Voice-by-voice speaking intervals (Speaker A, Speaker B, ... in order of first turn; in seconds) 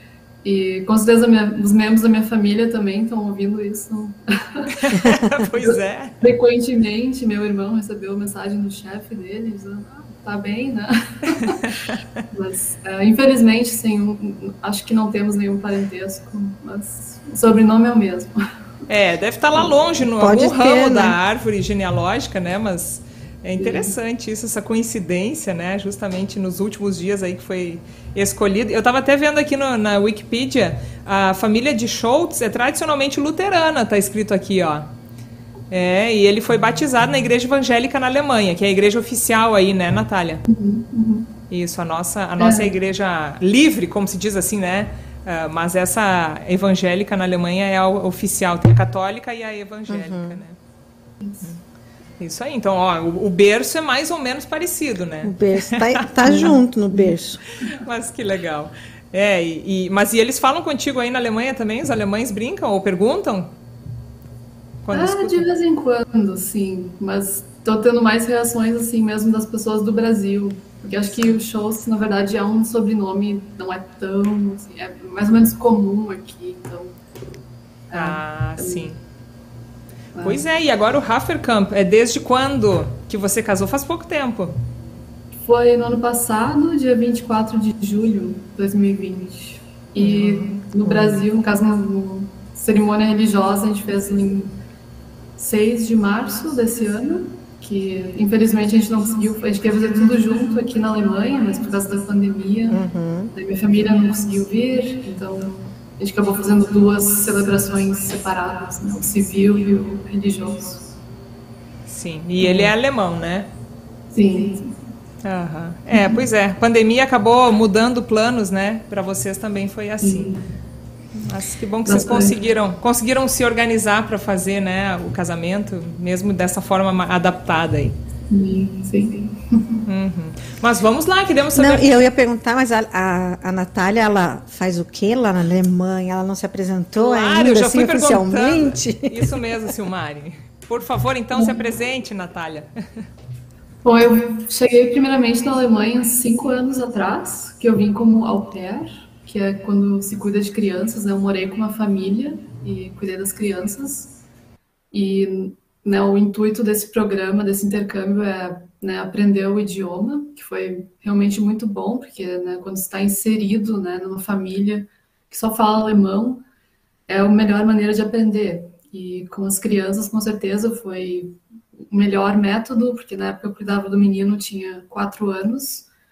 Speaker A: 0.4-4.9, 5.6-11.8, 12.3-18.4, 23.6-23.9, 40.5-41.3, 42.4-42.7, 51.2-51.5, 56.3-57.1, 64.9-77.0, 77.9-78.9, 80.2-80.4, 85.4-94.5, 95.4-102.8, 103.3-110.9, 114.1-114.7, 115.9-116.2, 120.0-120.4, 121.8-122.3, 128.3-129.6, 141.3-141.7, 143.8-154.1, 154.9-166.4, 167.1-171.4, 171.9-175.9
Speaker B: 4.7-6.2, 18.9-34.9, 35.7-40.4, 41.5-50.5, 52.2-56.5, 57.7-63.5, 64.8-65.5, 77.9-79.0, 80.2-84.5, 111.9-113.5, 115.2-120.3, 121.2-128.0, 129.8-131.9, 136.9-142.7
Speaker C: 20.2-21.2, 49.9-50.4, 55.2-57.4, 90.0-91.2, 102.7-103.3, 131.5-139.4